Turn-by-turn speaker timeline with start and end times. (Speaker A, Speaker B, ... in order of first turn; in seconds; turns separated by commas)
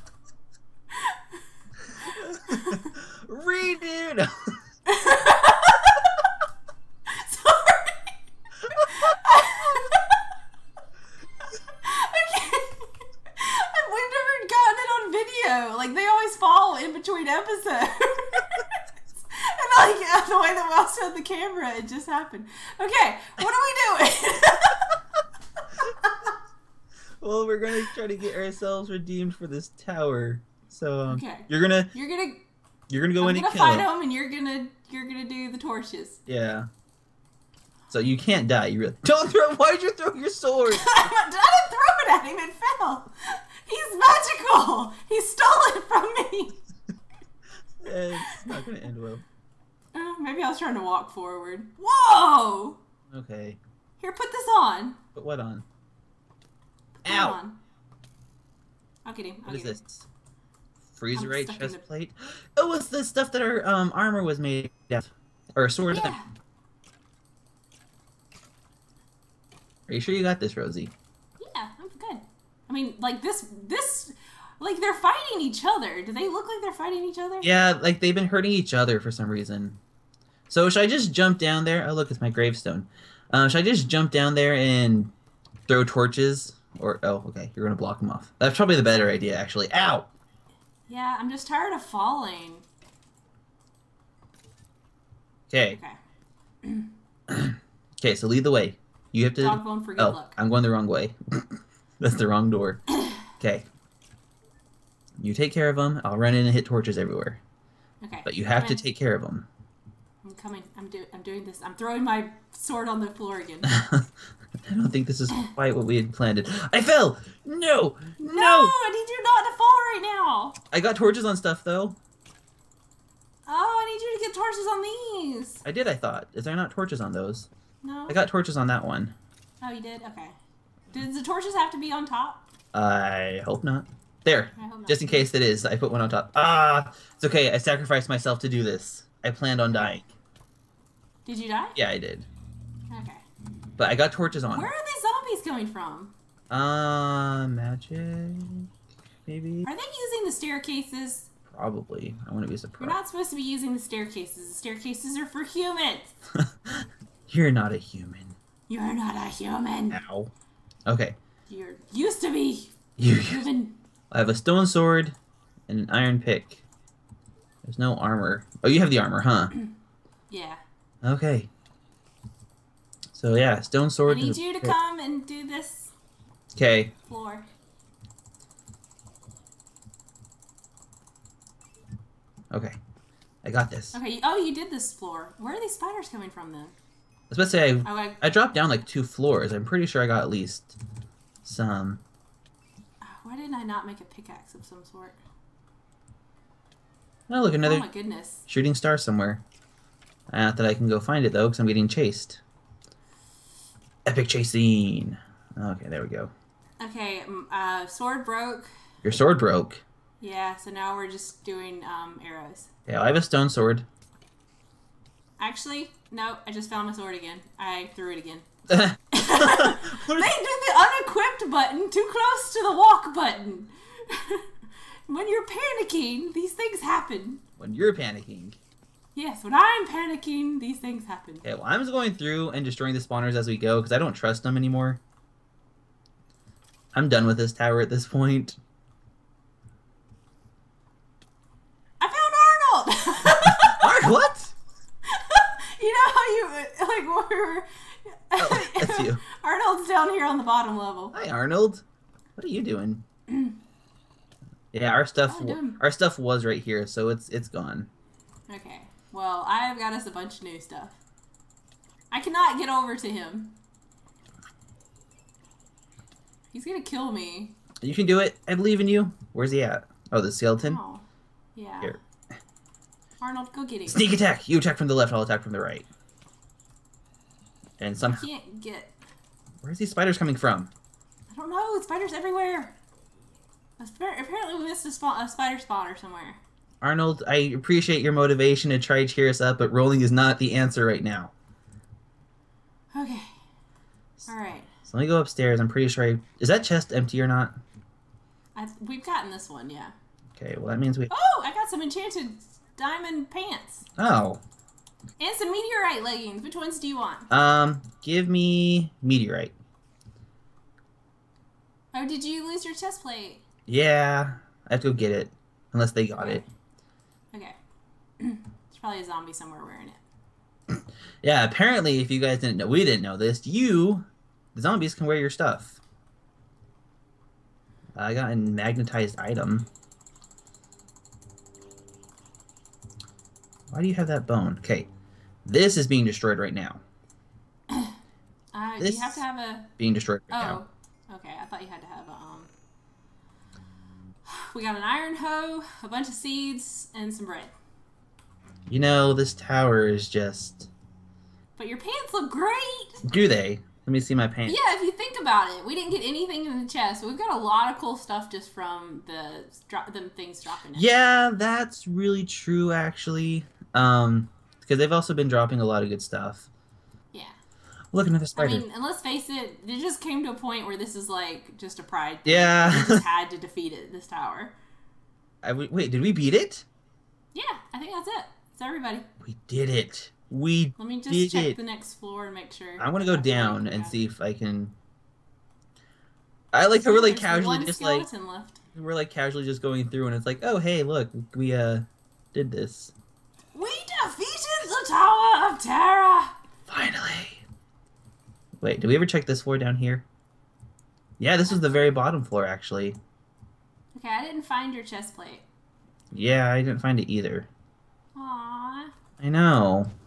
Speaker A: 0.9-1.2, Speaker B: 2.0-4.6, Speaker A: 2.0-2.9, Speaker A: 4.8-6.3, Speaker A: 7.1-8.2, Speaker A: 8.7-10.2, Speaker A: 11.8-25.0, Speaker B: 27.2-31.9, Speaker A: 31.1-32.4, Speaker B: 32.9-33.9, Speaker A: 33.2-36.2, Speaker B: 36.3-36.7, Speaker B: 37.9-41.1, Speaker A: 40.7-46.6, Speaker B: 47.8-49.2, Speaker A: 49.9-52.8, Speaker B: 53.1-53.6, Speaker A: 54.0-55.0, Speaker B: 55.1-55.6, Speaker A: 57.0-57.6, Speaker B: 57.0-57.4, Speaker A: 59.0-59.8, Speaker B: 59.5-60.1, Speaker B: 60.9-66.2, Speaker A: 61.1-61.8, Speaker A: 65.9-66.3, Speaker B: 69.9-70.9, Speaker A: 71.4-77.5, Speaker B: 77.4-79.8, Speaker B: 80.5-85.1, Speaker B: 85.7-90.1, Speaker A: 90.9-92.7, Speaker B: 95.5-95.8, Speaker A: 95.7-96.0, Speaker A: 96.6-96.9, Speaker B: 97.3-103.7, Speaker A: 99.4-100.4, Speaker B: 105.2-107.4, Speaker A: 108.0-108.8, Speaker B: 108.2-109.5, Speaker A: 110.2-113.8, Speaker B: 113.7-114.1, Speaker B: 114.6-118.7, Speaker A: 118.2-120.6, Speaker B: 120.7-122.0, Speaker A: 123.5-125.6, Speaker B: 125.6-127.5, Speaker A: 127.8-128.2, Speaker B: 128.1-129.2, Speaker A: 129.6-130.4, Speaker A: 130.9-132.5, Speaker B: 132.7-140.1, Speaker A: 134.6-135.2, Speaker A: 141.2-141.8, Speaker B: 141.8-142.3, Speaker A: 142.9-143.2, Speaker B: 143.8-144.7, Speaker A: 144.5-146.1, Speaker B: 146.5-148.7, Speaker B: 149.2-149.7, Speaker A: 149.6-151.3, Speaker B: 151.5-153.0, Speaker A: 152.8-156.1, Speaker B: 156.3-158.3, Speaker A: 158.7-160.0, Speaker B: 159.9-160.3, Speaker B: 160.9-161.2, Speaker A: 161.5-163.8, Speaker B: 163.0-163.5, Speaker B: 164.1-165.2, Speaker B: 165.7-166.6, Speaker B: 167.6-169.5, Speaker A: 170.3-170.6, Speaker B: 171.0-171.5, Speaker B: 173.1-174.8, Speaker A: 174.1-175.9, Speaker B: 176.5-176.9, Speaker A: 177.1-177.4, Speaker B: 182.5-182.8, Speaker B: 183.4-183.9, Speaker A: 183.9-186.7, Speaker B: 187.3-190.8, Speaker A: 187.8-188.2, Speaker B: 191.4-192.0, Speaker A: 193.0-195.2, Speaker B: 197.3-197.9, Speaker A: 197.6-198.4, Speaker B: 198.5-199.4, Speaker B: 200.3-202.4, Speaker B: 204.1-206.3, Speaker A: 206.8-208.7, Speaker B: 209.0-209.8, Speaker A: 210.2-212.7, Speaker B: 212.9-213.9, Speaker A: 215.4-218.4, Speaker B: 218.7-220.3, Speaker A: 219.1-224.5, Speaker A: 225.1-227.4, Speaker B: 227.6-228.6, Speaker A: 229.1-231.4, Speaker B: 231.4-235.0, Speaker B: 236.9-238.6, Speaker A: 242.0-244.0, Speaker B: 243.3-244.5, Speaker A: 245.1-251.2, Speaker B: 248.4-249.2, Speaker B: 251.1-251.8, Speaker B: 252.3-253.1, Speaker A: 253.3-253.5, Speaker B: 254.7-257.9, Speaker A: 255.3-255.8, Speaker A: 258.5-261.0, Speaker A: 262.1-263.6, Speaker A: 266.5-267.6, Speaker B: 267.8-270.8, Speaker A: 270.6-272.0, Speaker A: 273.2-274.1, Speaker B: 273.9-275.9, Speaker B: 277.8-278.3, Speaker A: 278.1-278.9, Speaker B: 279.6-280.7, Speaker A: 281.3-282.8, Speaker A: 283.8-286.4, Speaker B: 286.8-291.3, Speaker A: 292.9-293.3, Speaker A: 294.3-294.7, Speaker B: 294.8-297.5, Speaker A: 298.5-299.9, Speaker B: 300.3-301.1, Speaker A: 301.1-303.9, Speaker B: 304.0-304.4, Speaker A: 305.2-307.3, Speaker B: 307.3-309.5, Speaker A: 311.9-313.4, Speaker B: 313.7-316.4, Speaker A: 316.2-316.5, Speaker A: 318.2-320.0, Speaker B: 320.7-325.8, Speaker B: 327.9-329.7, Speaker B: 333.7-334.9, Speaker B: 335.4-336.8, Speaker A: 337.7-337.9, Speaker A: 338.5-339.7, Speaker B: 338.8-339.2, Speaker B: 339.8-340.6, Speaker A: 340.3-342.5, Speaker A: 344.2-347.5, Speaker B: 348.7-350.7, Speaker A: 351.6-353.0, Speaker B: 353.1-354.6, Speaker A: 354.4-360.9, Speaker B: 360.7-366.5, Speaker B: 367.9-368.6, Speaker A: 368.3-374.6, Speaker B: 372.2-373.0, Speaker B: 375.4-376.6, Speaker A: 377.3-379.1, Speaker B: 379.2-381.6, Speaker A: 380.8-384.0, Speaker B: 382.8-384.8, Speaker B: 386.5-388.1, Speaker A: 386.8-388.6, Speaker B: 388.7-392.9, Speaker A: 393.5-396.4, Speaker B: 396.7-397.4, Speaker B: 398.6-400.1, Speaker B: 401.2-403.0, Speaker A: 401.5-401.9, Speaker A: 403.9-405.4, Speaker B: 406.1-407.5, Speaker A: 408.1-408.9, Speaker B: 409.2-409.9